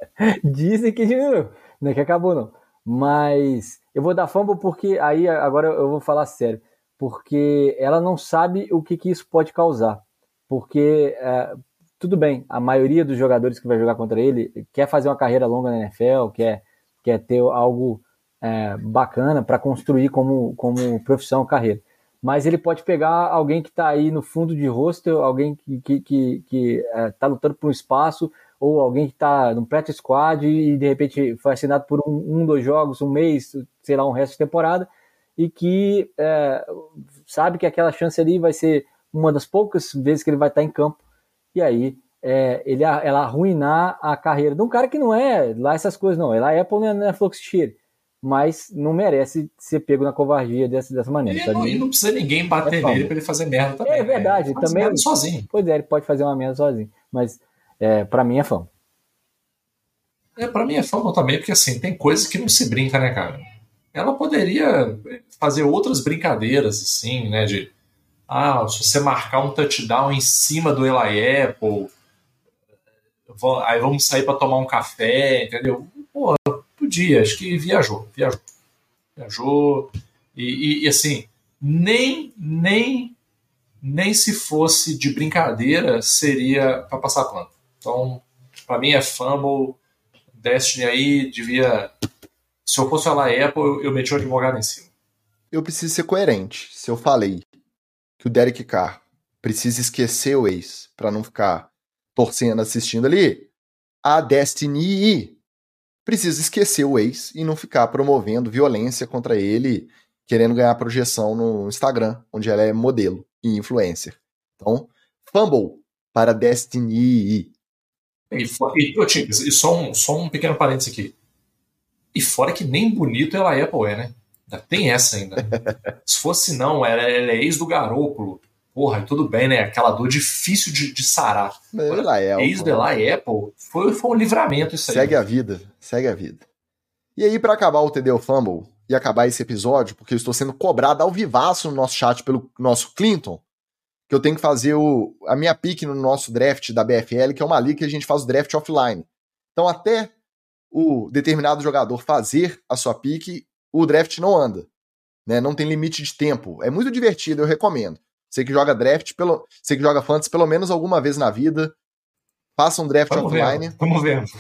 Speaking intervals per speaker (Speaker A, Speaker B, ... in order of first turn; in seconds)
Speaker A: 0.2-41.0, 41.5-51.9, 52.6-53.1, 53.9-58.7
Speaker B: 51.3-55.5, 60.4-67.7, 68.3-71.9, 73.3-78.4, 79.2-83.2, 83.8-89.8, 90.3-91.9, 92.7-94.9, 118.3-121.1, 122.1-135.2, 163.1-164.3
Speaker C: 95.5-97.5, 98.2-103.5, 104.0-105.4, 106.1-117.5, 131.7-132.9, 134.9-136.4, 137.2-143.4, 144.1-150.1, 150.7-154.7, 155.3-161.8, 162.6-163.8